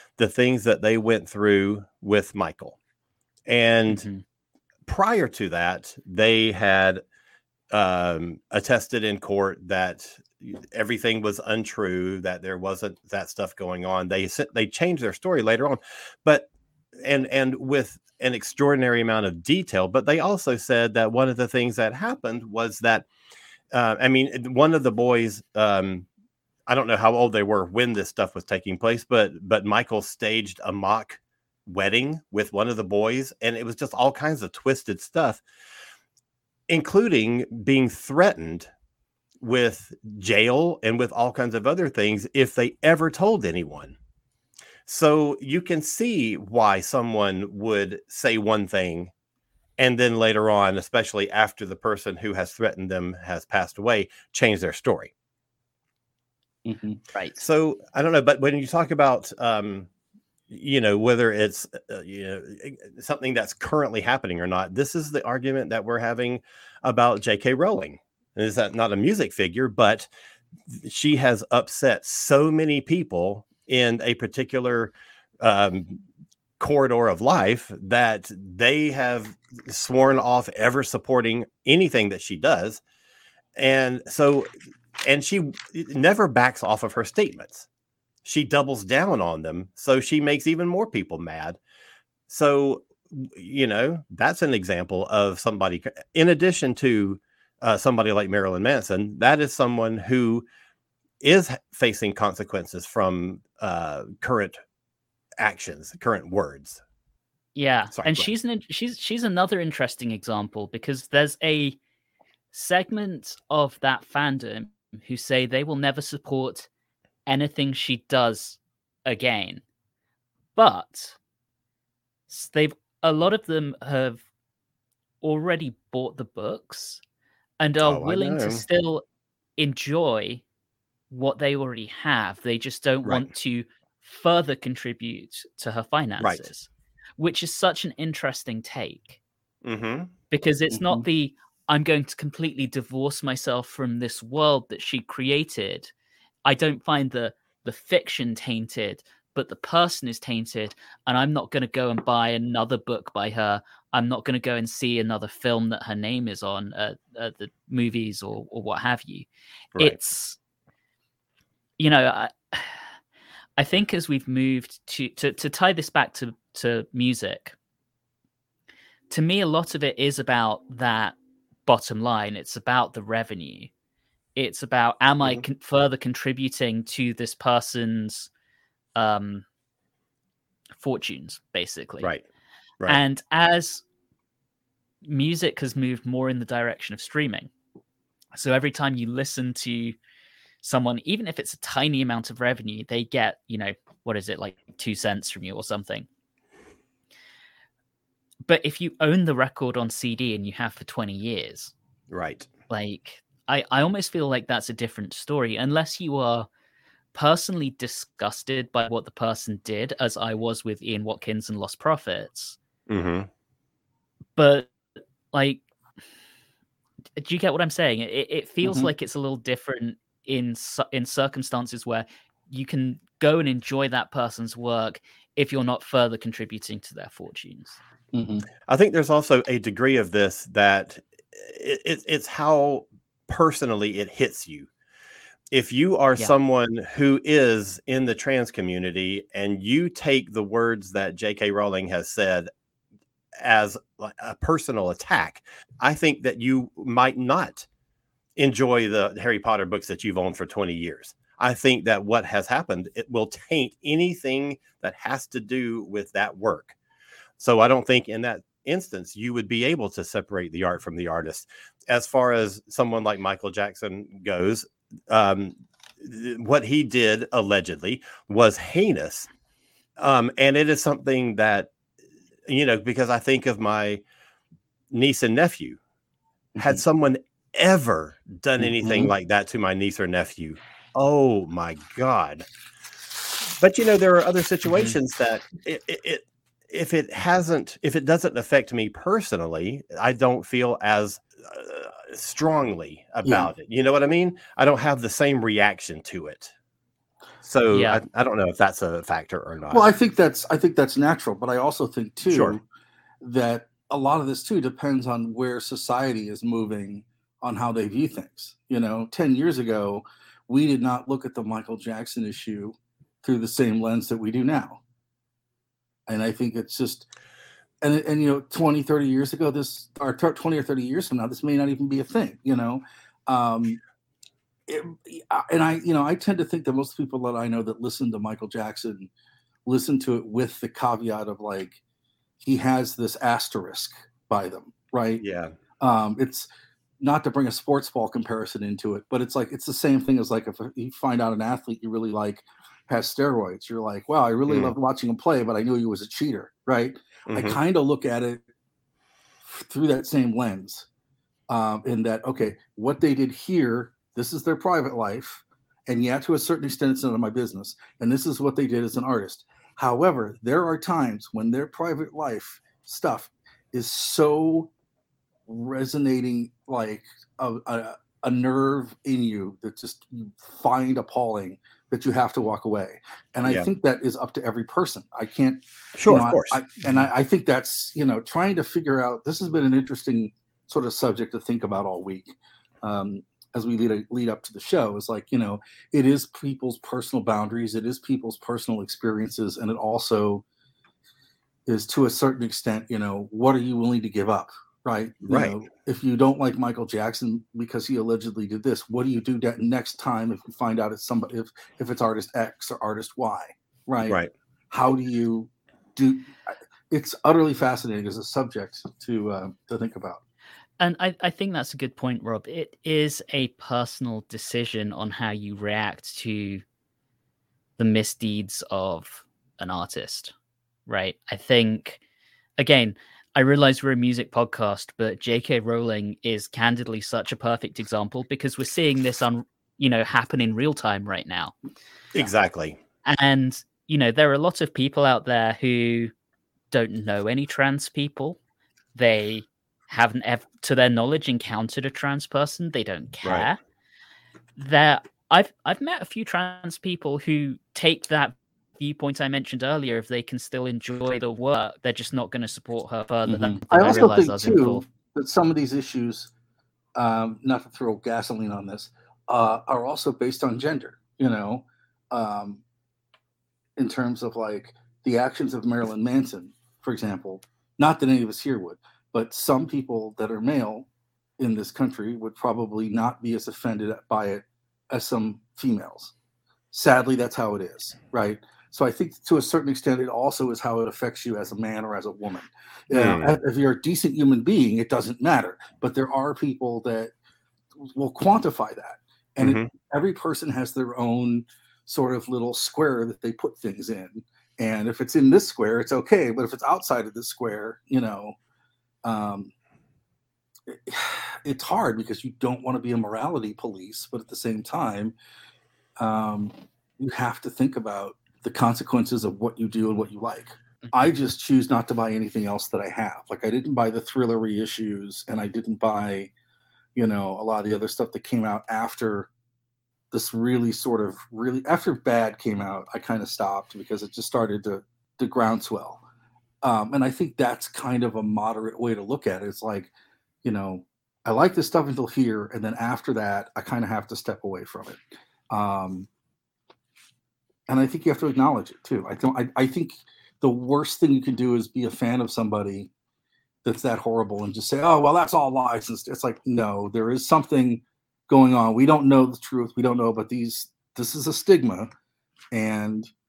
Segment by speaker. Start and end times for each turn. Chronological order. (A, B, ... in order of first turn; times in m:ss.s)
0:00.2-0:02.8 A
0:03.5-0:04.1 A
0:03.9-0:04.2 B
0:04.8-0:07.0 A
0:07.7-0:16.5 A
0:17.0-0:23.1 A
0:23.7-0:26.0 A
0:26.7-0:35.4 A
0:36.7-0:38.7 A
0:39.4-0:44.0 A
0:44.8-0:49.1 A
0:49.8-0:55.1 A
0:56.6-0:57.0 C
0:57.1-0:57.4 B
0:57.4-0:59.9 A
1:00.5-1:10.1 A
1:10.7-1:16.0 A
1:16.6-1:22.8 A
1:23.6-1:24.5 A
1:25.0-1:27.7 A
1:28.2-1:31.6 A
1:32.3-1:40.4 A
1:41.2-1:44.6 A
1:45.4-1:46.8 A
1:47.5-1:51.8 B
1:47.9-1:48.3 A
1:52.5-1:56.7 B
1:57.3-1:59.6 B
2:00.5-2:01.2 B
2:02.3-2:04.2 B
2:05.2-2:07.0 B
2:07.6-2:09.0 B
2:07.8-2:08.6 A
2:09.6-2:10.4 B
2:11.1-2:19.2 B
2:19.6-2:20.1 A
2:20.3-2:25.9 B
2:20.7-2:21.0 C
2:26.4-2:39.3 B
2:39.8-2:40.4 B
2:41.8-2:42.9 B
2:43.6-2:47.6 B
2:49.1-2:53.7 B
2:54.4-2:58.3 B
2:59.0-2:59.4 B
3:00.8-3:02.1 B
3:02.8-3:03.8 B
3:05.0-3:07.5 B
3:08.3-3:10.0 B
3:10.6-3:16.1 B
3:18.4-3:21.7 B
3:22.1-3:22.5 A
3:22.7-3:26.5 B
3:27.1-3:32.6 B
3:32.9-3:33.3 A
3:34.4-3:34.7 B
3:35.3-3:35.6 B
3:37.2-3:47.8 B
3:38.6-3:38.9 C
3:48.1-3:48.5 C
3:48.7-3:54.7 A
3:55.5-4:02.5 A
4:03.4-4:07.7 A
4:08.4-4:16.8 A
4:17.4-4:29.3 A
4:30.0-4:31.7 A
4:32.5-4:34.0 A
4:34.9-4:35.8 A
4:36.6-4:36.8 C
4:36.6-4:42.4 A
4:38.6-4:39.1 C
4:43.6-4:56.5 A
4:53.2-4:53.5 C
4:57.4-4:59.9 A
4:57.7-4:58.0 B
4:59.7-5:02.6 C
5:02.3-5:02.6 A
5:03.2-5:14.8 C
5:16.1-5:17.1 C
5:17.8-5:23.8 C
5:24.7-5:29.1 C
5:29.6-5:31.8 C
5:32.4-5:35.2 C
5:35.2-5:35.5 A
5:35.8-5:36.5 C
5:37.0-5:48.4 C
5:44.5-5:44.7 A
5:47.3-5:47.6 A
5:49.4-5:50.9 C
5:51.5-6:04.7 C
6:05.5-6:30.4 C
6:16.0-6:16.6 A
6:31.6-6:44.2 C
6:35.2-6:35.5 A
6:44.7-6:50.2 C
6:50.8-6:56.6 B
6:57.8-7:00.3 B
7:00.9-7:02.0 B
7:02.6-7:11.5 B
7:12.1-7:12.8 A
7:13.0-7:16.1 B
7:16.7-7:18.4 B
7:18.9-7:23.6 B
7:24.6-7:34.8 B
7:33.2-7:36.3 C
7:37.0-7:42.6 C
7:43.8-7:50.9 C
7:51.4-7:56.1 C
7:56.7-8:07.1 C
8:02.9-8:03.4 A
8:07.8-8:18.3 C
8:09.4-8:09.7 A
8:19.0-8:19.5 C
8:20.7-8:25.1 C
8:26.0-8:36.3 C
8:36.9-8:39.3 C
8:40.1-8:46.0 C
8:46.6-8:49.9 C
8:50.4-8:56.1 C
8:57.7-9:02.9 C
9:03.6-9:11.9 C
9:12.5-9:13.1 C